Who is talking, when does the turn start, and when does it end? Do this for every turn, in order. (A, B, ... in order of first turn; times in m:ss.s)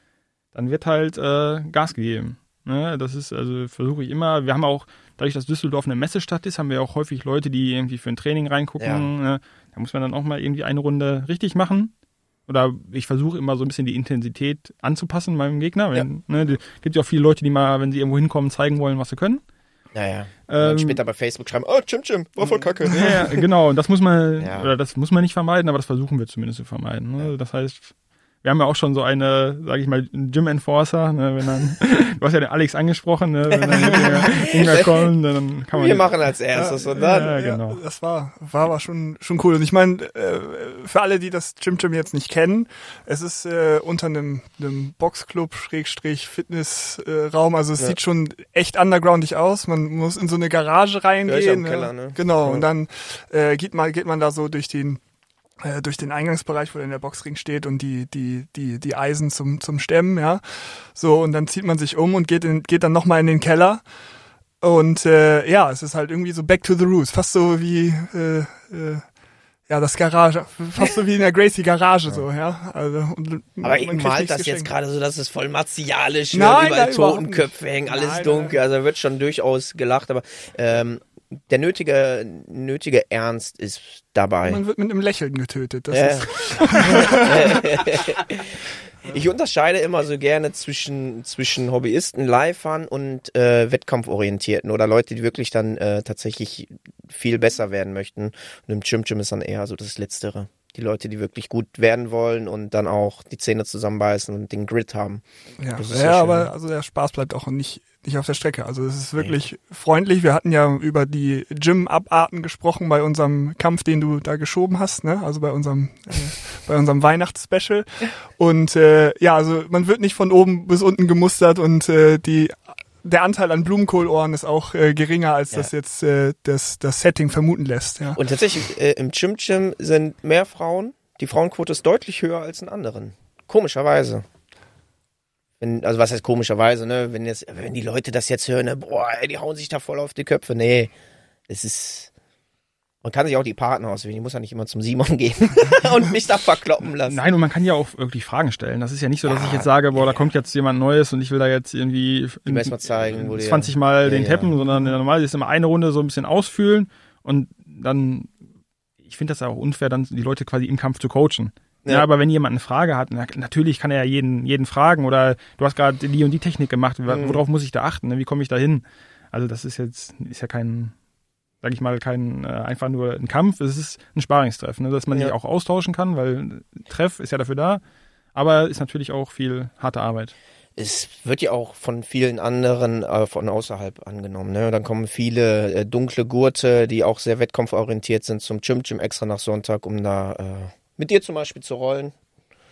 0:00.5-0:11.9 A
0:08.8-0:09.1 B
0:12.5-0:19.4 A
0:19.9-0:23.2 B
0:20.5-0:21.0 A
0:22.8-0:36.1 A
0:24.4-0:24.7 B
0:33.6-0:35.1 B
0:35.7-0:37.4 B
0:36.5-0:55.0 C
0:37.0-0:37.8 A
0:51.3-0:52.7 B
0:55.6-1:03.8 C
1:04.6-1:09.1 C
1:09.7-1:14.7 C
1:13.6-1:24.6 B
1:16.3-1:18.6 C
1:24.4-1:27.6 C
1:25.9-1:46.5 B
1:45.6-2:08.2 C
2:08.1-2:14.2 B
2:15.6-2:20.9 B
2:21.5-2:22.1 B
2:23.0-2:27.2 B
2:27.0-2:38.3 A
2:29.3-2:30.3 B
2:32.5-2:34.5 B
2:39.0-2:50.9 A
2:47.1-2:47.4 B
2:51.6-2:57.8 A
2:58.4-3:00.4 A
3:00.8-3:12.2 B